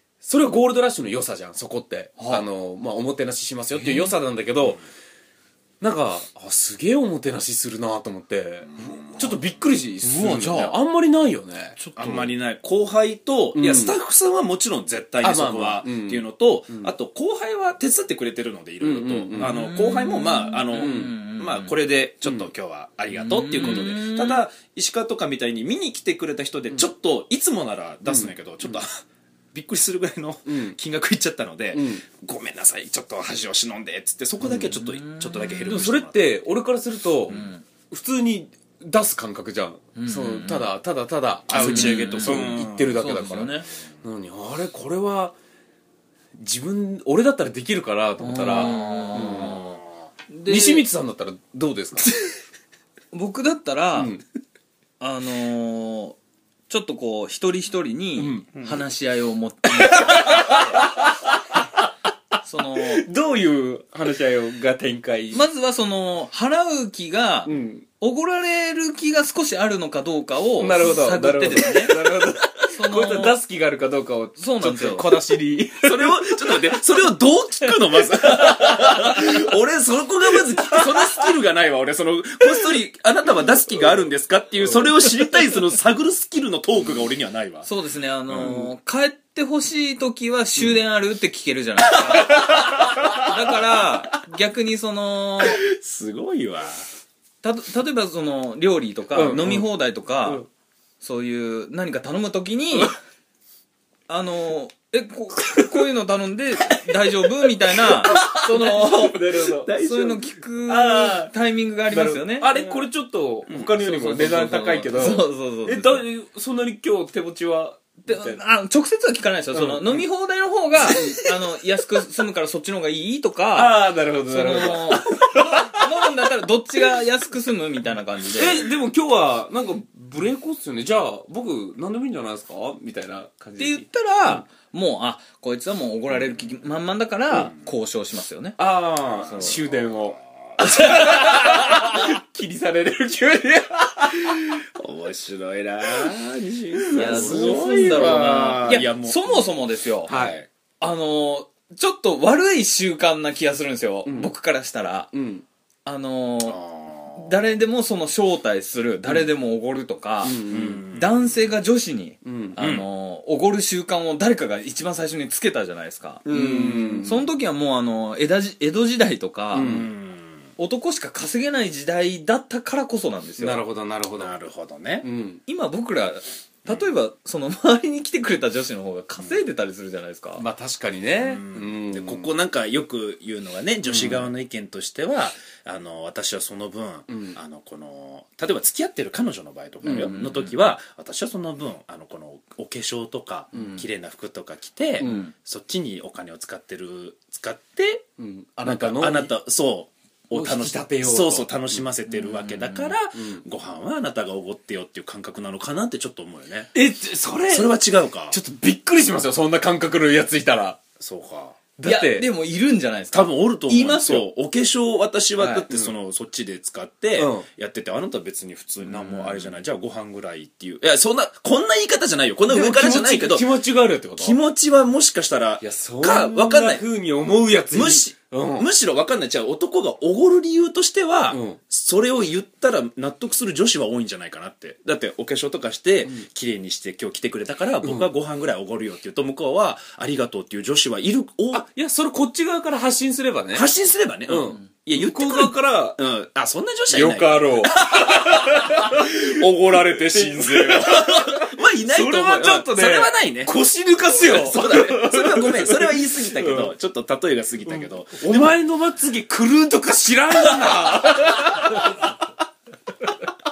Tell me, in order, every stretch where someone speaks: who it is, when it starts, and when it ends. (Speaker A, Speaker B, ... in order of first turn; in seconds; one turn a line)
Speaker A: 0.2-4.8
Speaker B: 2.2-2.5
Speaker B: 3.8-4.1
Speaker A: 5.8-11.8
Speaker C: 8.8-9.4
Speaker B: 10.0-10.8
Speaker B: 11.8-12.3
Speaker C: 11.9-28.9
Speaker A: 13.5-13.9
Speaker A: 15.2-16.9
Speaker A: 18.8-19.6
Speaker B: 19.3-21.7
Speaker A: 20.7-21.1
Speaker B: 23.2-24.4
Speaker A: 28.1-28.3
Speaker C: 29.5-36.4
Speaker A: 30.4-30.8
Speaker A: 31.7-32.0
Speaker A: 34.4-34.7
Speaker B: 34.7-35.7
Speaker A: 35.6-45.3
Speaker B: 37.3-37.6
Speaker B: 40.0-40.7
Speaker C: 41.5-43.1
Speaker B: 41.5-43.7
Speaker A: 46.3-49.6
Speaker B: 48.2-49.7
Speaker C: 48.8-49.8
Speaker B: 50.3-50.9
Speaker A: 50.5-52.1
Speaker B: 53.1-54.1
Speaker A: 54.0-54.2
Speaker B: 55.0-56.2
Speaker B: 56.7-60.8
Speaker A: 58.2-58.5
Speaker A: 59.8-61.6
Speaker B: 62.4-63.0
Speaker A: 62.7-65.4
Speaker B: 65.3-72.0
Speaker A: 67.5-67.8
Speaker A: 70.6-76.8
Speaker B: 72.7-73.4
Speaker B: 74.4-75.1
Speaker C: 75.8-87.7
Speaker A: 78.4-79.4
Speaker B: 87.6-95.6
Speaker C: 88.3-88.7
Speaker C: 92.1-93.2
Speaker A: 92.4-93.1
Speaker C: 95.4-96.8
Speaker B: 97.4-100.4
Speaker A: 99.1-99.7
Speaker B: 101.0-103.0
Speaker B: 104.1-109.2
Speaker A: 107.9-110.0
Speaker C: 109.4-110.2
Speaker B: 109.8-112.5
Speaker A: 110.7-111.3
Speaker A: 111.9-118.4
Speaker C: 113.5-113.7
Speaker B: 113.8-116.0
Speaker B: 118.0-128.7
Speaker A: 119.5-120.0
Speaker A: 120.8-121.1
Speaker A: 123.5-125.9
Speaker A: 128.3-133.8
Speaker B: 133.6-139.6
Speaker A: 138.6-144.6
Speaker C: 139.0-140.8
Speaker B: 140.6-142.0
Speaker C: 144.7-150.5
Speaker A: 146.8-148.8
Speaker B: 146.9-150.1
Speaker A: 150.1-150.4
Speaker B: 150.8-155.1
Speaker A: 154.0-154.3
Speaker A: 155.1-155.4
Speaker B: 155.8-156.6
Speaker C: 156.4-157.3
Speaker B: 157.1-169.8
Speaker A: 160.2-160.8
Speaker C: 160.5-161.1
Speaker A: 162.2-162.6
Speaker C: 162.6-162.8
Speaker A: 166.2-167.3
Speaker C: 166.3-167.0
Speaker A: 169.5-169.9
Speaker C: 169.5-170.4
Speaker B: 170.6-173.6
Speaker A: 173.4-174.3
Speaker C: 174.1-175.1
Speaker A: 175.0-175.4
Speaker B: 175.5-180.4
Speaker A: 180.4-182.3
Speaker C: 181.2-198.0
Speaker A: 183.8-184.3
Speaker A: 187.1-187.4
Speaker A: 189.8-190.5
Speaker A: 193.5-193.8
Speaker A: 195.0-195.3
Speaker B: 195.0-195.3
Speaker A: 198.2-199.3
Speaker C: 198.6-206.7
Speaker A: 200.3-201.8
Speaker B: 202.3-202.7
Speaker A: 203.1-203.4
Speaker A: 206.7-207.8
Speaker C: 207.5-208.4
Speaker A: 208.3-210.8
Speaker C: 211.0-211.6
Speaker A: 211.8-212.3
Speaker B: 211.8-214.3
Speaker C: 213.1-223.5
Speaker B: 215.4-215.7
Speaker A: 217.1-217.5
Speaker A: 218.8-219.5
Speaker A: 222.5-224.4
Speaker C: 224.2-226.8
Speaker A: 225.6-228.7
Speaker C: 227.7-241.6
Speaker A: 231.3-231.6
Speaker A: 237.8-238.1
Speaker A: 241.5-243.7
Speaker C: 243.5-253.5
Speaker A: 244.3-246.0
Speaker A: 246.9-256.7
Speaker C: 254.2-258.6
Speaker A: 257.6-262.1